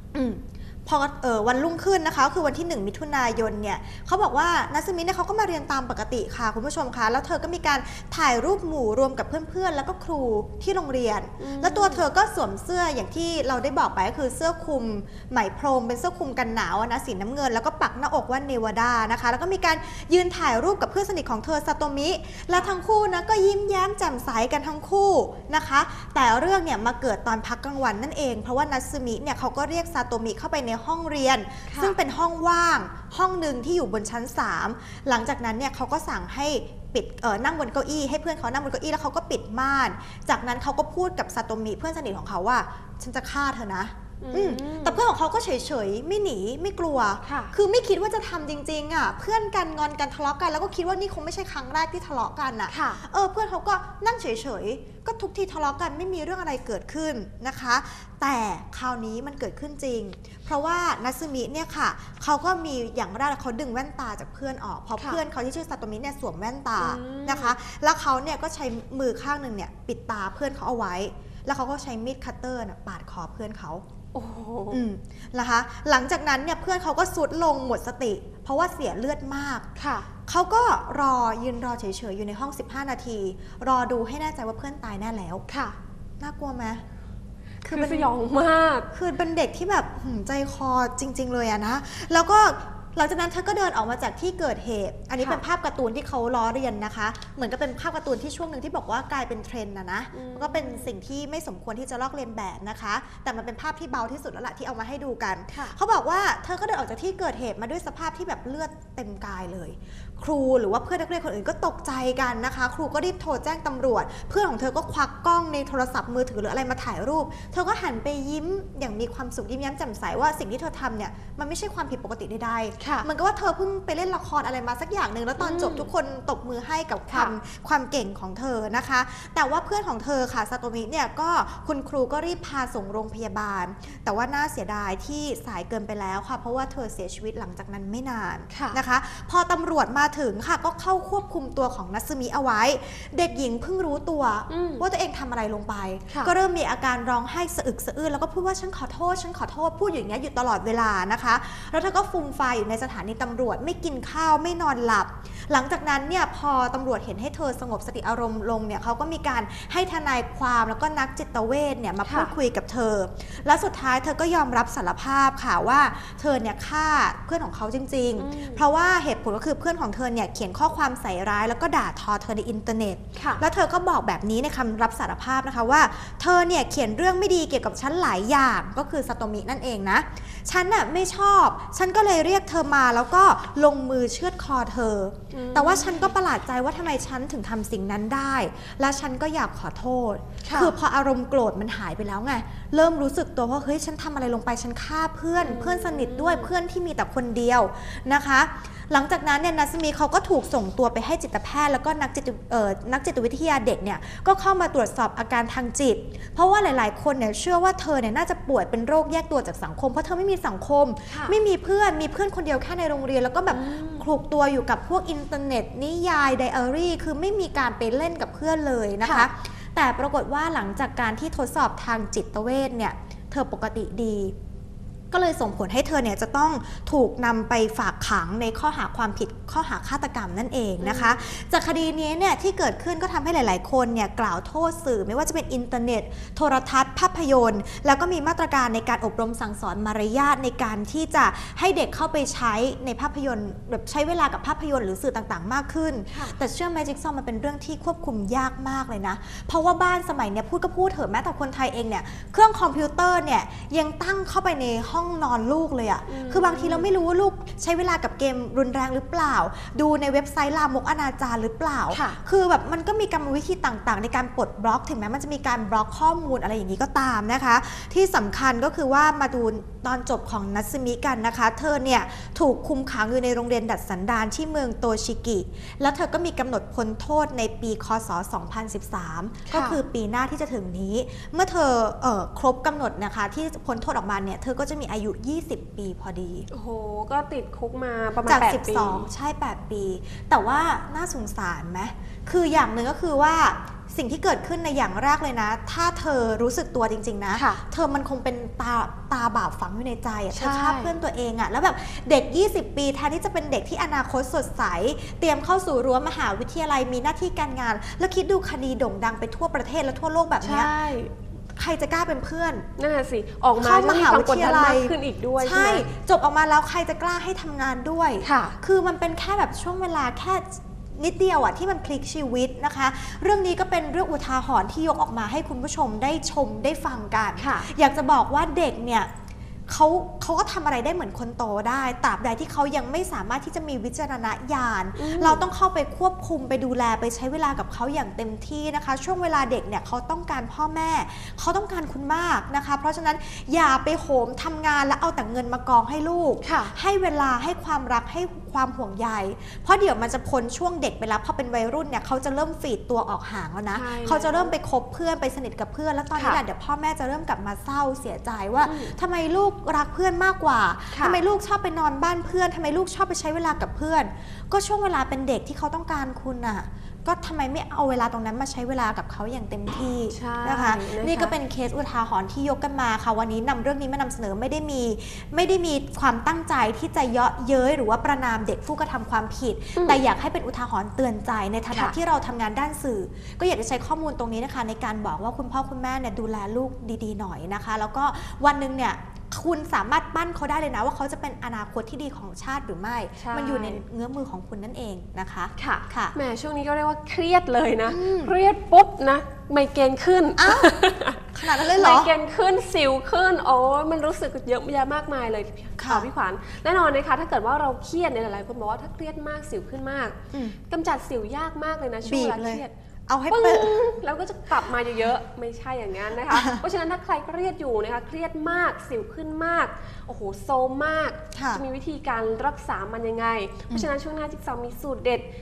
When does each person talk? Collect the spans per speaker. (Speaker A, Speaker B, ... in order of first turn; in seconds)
Speaker A: 0.1-73.8, 74.7-79.7, 80.2-85.4, 86.2-86.8, 87.6-88.1, 88.9-224.3, 225.1-286.5, 288.2-310.7, 311.5-312.7, 313.6-329.1, 329.7-396.1, 397.9-398.3, 400.4-400.7, 401.3-402.1, 405.8-406.1, 412.0-413.9, 416.3-416.6, 421.3-421.6
Speaker B: 11.4-12.0, 31.7-32.0, 44.2-45.0, 47.2-47.5, 52.7-53.0, 66.8-67.5, 74.1-74.8, 79.8-80.1, 85.5-85.8, 87.6-88.9, 100.1-100.9, 122.8-123.1, 125.4-125.9, 138.5-138.8, 144.5-144.8, 162.0-162.3, 168.2-168.6, 173.1-173.4, 185.3-186.1, 190.4-190.7, 195.4-196.5, 211.1-211.3, 213.5-214.1, 230.8-231.3, 246.1-246.3, 256.1-256.9, 261.9-262.2, 279.5-279.8, 286.5-289.1, 297.3-297.6, 300.3-300.9, 310.4-311.1, 312.8-315.9, 318.2-318.6, 327.4-327.7, 334.9-335.4, 346.4-346.7, 353.7-354.6, 356.1-356.4, 358.6-358.9, 360.9-361.2, 370.1-371.3, 393.2-393.8, 395.6-410.2, 410.7-412.7, 413.3-425.3